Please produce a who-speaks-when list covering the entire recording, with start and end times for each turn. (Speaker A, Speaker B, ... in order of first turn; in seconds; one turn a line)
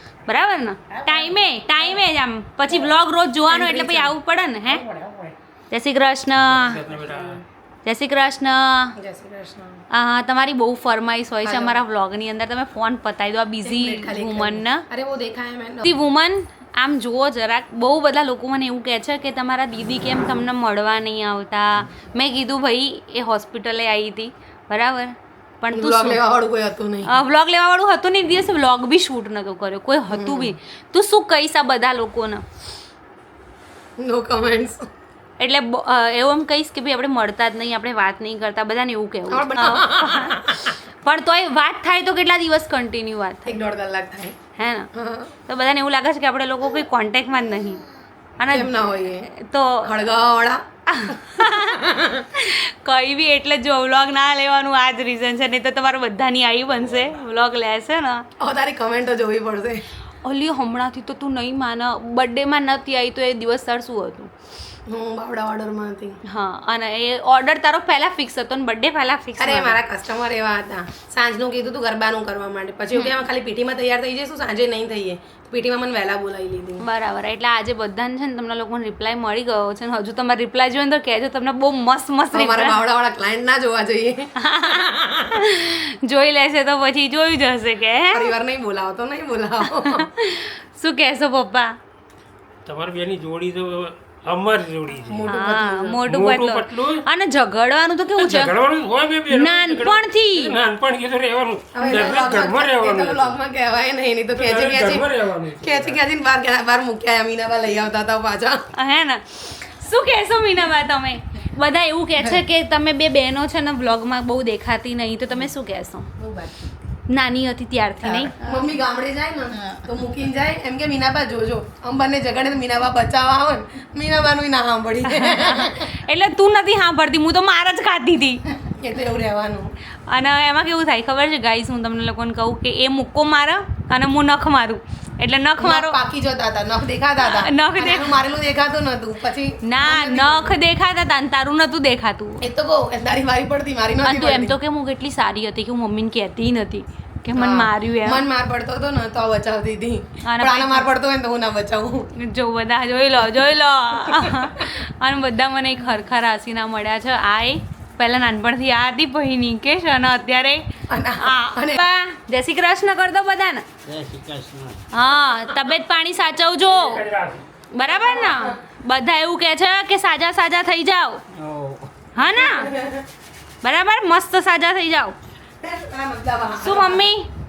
Speaker A: 0.3-4.9
Speaker B: 3.5-4.1
Speaker A: 5.7-6.8
Speaker C: 6.4-7.4
Speaker A: 7.8-8.9
Speaker B: 9.0-9.8
Speaker A: 9.9-14.9
Speaker B: 11.4-11.8
Speaker B: 13.6-15.9
Speaker A: 15.8-26.2
Speaker B: 25.7-27.1
Speaker A: 27.1-32.4
Speaker B: 30.1-30.6
Speaker B: 34.0-34.9
Speaker A: 35.4-43.6
Speaker B: 39.3-40.5
Speaker B: 43.5-44.4
Speaker A: 44.6-44.9
Speaker B: 45.0-45.3
Speaker A: 45.5-47.8
Speaker A: 48.4-49.9
Speaker B: 48.5-49.3
Speaker B: 49.8-50.6
Speaker A: 50.9-58.2
Speaker B: 51.4-52.1
Speaker B: 58.4-59.8
Speaker A: 60.2-64.3
Speaker B: 64.9-66.2
Speaker A: 66.3-69.8
Speaker B: 69.4-76.8
Speaker A: 76.8-82.8
Speaker B: 82.3-84.3
Speaker A: 84.4-88.3
Speaker B: 88.1-90.1
Speaker A: 89.7-91.8
Speaker C: 92.7-95.4
Speaker B: 95.1-96.0
Speaker A: 95.3-98.5
Speaker C: 96.1-97.0
Speaker C: 98.2-103.4
Speaker A: 99.3-100.6
Speaker B: 101.7-105.1
Speaker C: 104.3-106.0
Speaker B: 105.6-108.6
Speaker A: 108.7-116.1
Speaker B: 116.2-116.5
Speaker A: 117.1-118.3
Speaker B: 118.0-125.9
Speaker A: 125.0-128.4
Speaker B: 128.7-129.7
Speaker A: 130.1-136.0
Speaker B: 135.6-140.6
Speaker A: 137.2-138.2
Speaker A: 139.6-142.5
Speaker B: 142.4-144.6
Speaker A: 144.0-148.3
Speaker B: 147.3-152.1
Speaker A: 150.2-150.9
Speaker A: 152.2-160.6
Speaker B: 160.9-161.8
Speaker A: 161.2-163.7
Speaker A: 164.9-167.0
Speaker C: 166.7-167.5
Speaker A: 167.7-171.2
Speaker B: 167.9-168.5
Speaker A: 172.2-172.7
Speaker B: 172.4-173.1
Speaker A: 173.6-175.2
Speaker B: 175.6-177.0
Speaker A: 176.6-177.3